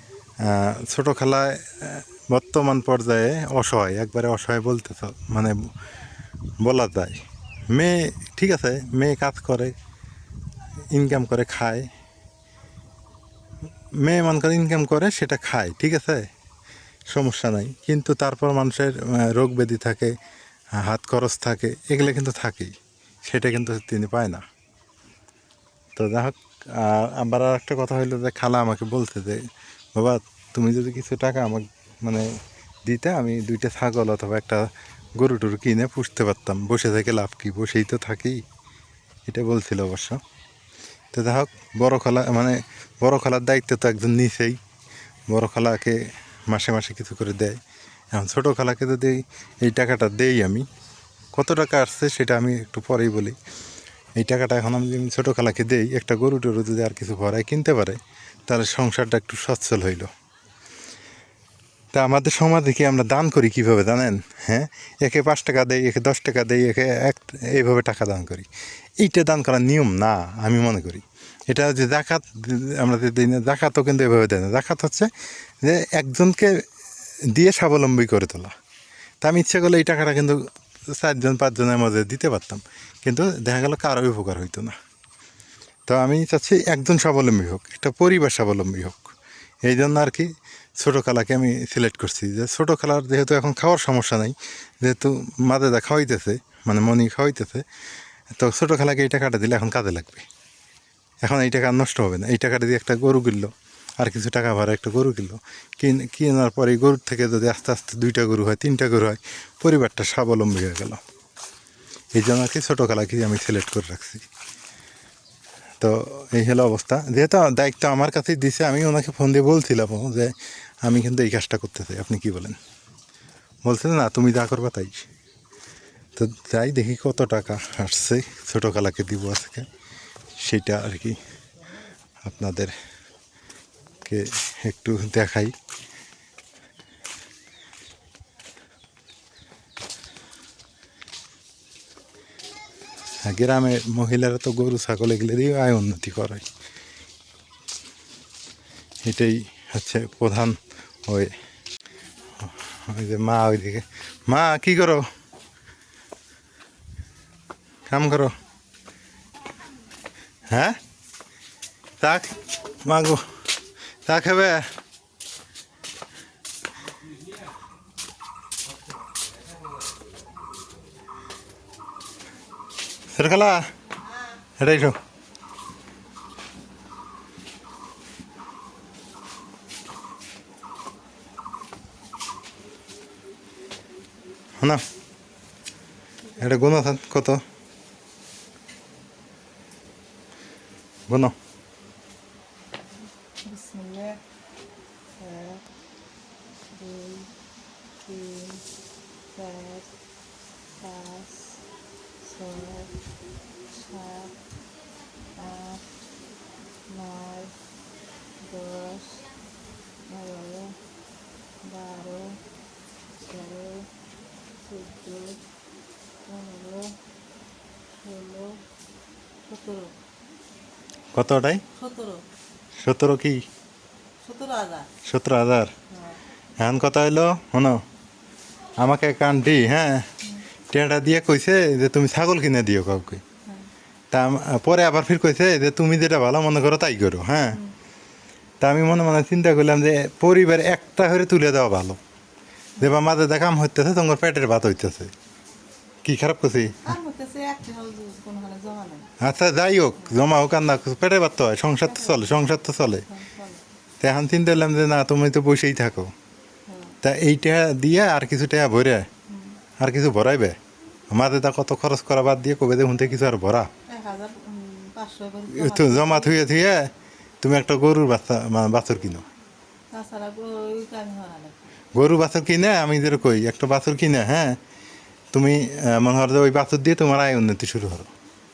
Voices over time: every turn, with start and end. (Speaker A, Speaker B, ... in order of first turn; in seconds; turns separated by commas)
Speaker A: 0.4-5.7, Speaker A: 6.6-7.2, Speaker A: 7.7-9.7, Speaker A: 10.9-11.9, Speaker A: 14.0-16.3, Speaker A: 17.1-20.1, Speaker A: 20.7-22.7, Speaker A: 23.2-24.4, Speaker A: 25.9-29.4, Speaker A: 29.9-32.3, Speaker A: 32.8-38.4, Speaker A: 39.3-40.2, Speaker A: 41.1-44.6, Speaker A: 45.3-47.6, Speaker A: 48.1-50.6, Speaker A: 51.3-53.4, Speaker A: 54.2-60.1, Speaker A: 61.9-68.5, Speaker A: 69.0-75.1, Speaker A: 75.6-76.7, Speaker A: 77.3-78.5, Speaker A: 79.2-84.7, Speaker A: 85.9-97.6, Speaker A: 98.3-100.2, Speaker A: 101.2-111.0, Speaker A: 112.1-114.2, Speaker A: 115.8-122.6, Speaker A: 123.6-125.1, Speaker A: 126.2-129.7, Speaker A: 130.4-131.2, Speaker A: 132.2-132.7, Speaker A: 134.0-135.5, Speaker A: 143.2-146.4, Speaker A: 149.0-151.3, Speaker A: 152.4-155.1, Speaker A: 157.9-158.3, Speaker A: 160.5-160.8, Speaker A: 162.0-163.2, Speaker A: 164.1-164.7, Speaker A: 173.1-173.7, Speaker A: 174.6-175.0, Speaker A: 186.4-187.4, Speaker A: 191.1-191.3, Speaker B: 193.4-194.2, Speaker B: 195.2-195.6, Speaker B: 196.7-197.3, Speaker B: 198.0-198.6, Speaker B: 199.3-199.9, Speaker B: 200.8-201.6, Speaker B: 202.2-202.9, Speaker B: 203.7-204.3, Speaker B: 205.4-205.9, Speaker B: 206.9-207.5, Speaker B: 208.4-209.3, Speaker B: 210.1-210.8, Speaker B: 211.7-212.4, Speaker B: 213.2-213.9, Speaker B: 214.6-215.4, Speaker B: 216.3-216.9, Speaker B: 218.0-218.6, Speaker B: 219.5-219.9, Speaker A: 221.1-221.6, Speaker B: 221.8-222.2, Speaker A: 222.8-223.4, Speaker B: 224.2-224.9, Speaker A: 225.0-225.7, Speaker B: 225.9-226.2, Speaker A: 226.6-227.8, Speaker A: 228.8-230.1, Speaker A: 230.7-233.2, Speaker A: 234.1-237.6, Speaker B: 237.5-237.8, Speaker A: 238.6-242.0, Speaker A: 242.8-245.1, Speaker A: 246.0-246.8, Speaker B: 246.8-249.1, Speaker A: 249.2-253.1, Speaker B: 251.8-252.5, Speaker B: 253.1-253.6, Speaker A: 254.0-256.1, Speaker B: 256.7-256.9, Speaker A: 257.0-259.1, Speaker B: 259.3-259.6, Speaker A: 259.8-260.6, Speaker A: 261.1-263.7, Speaker B: 263.9-266.4, Speaker A: 265.5-266.9, Speaker A: 267.4-269.2, Speaker B: 269.9-271.5, Speaker A: 271.9-274.6, Speaker A: 275.3-278.1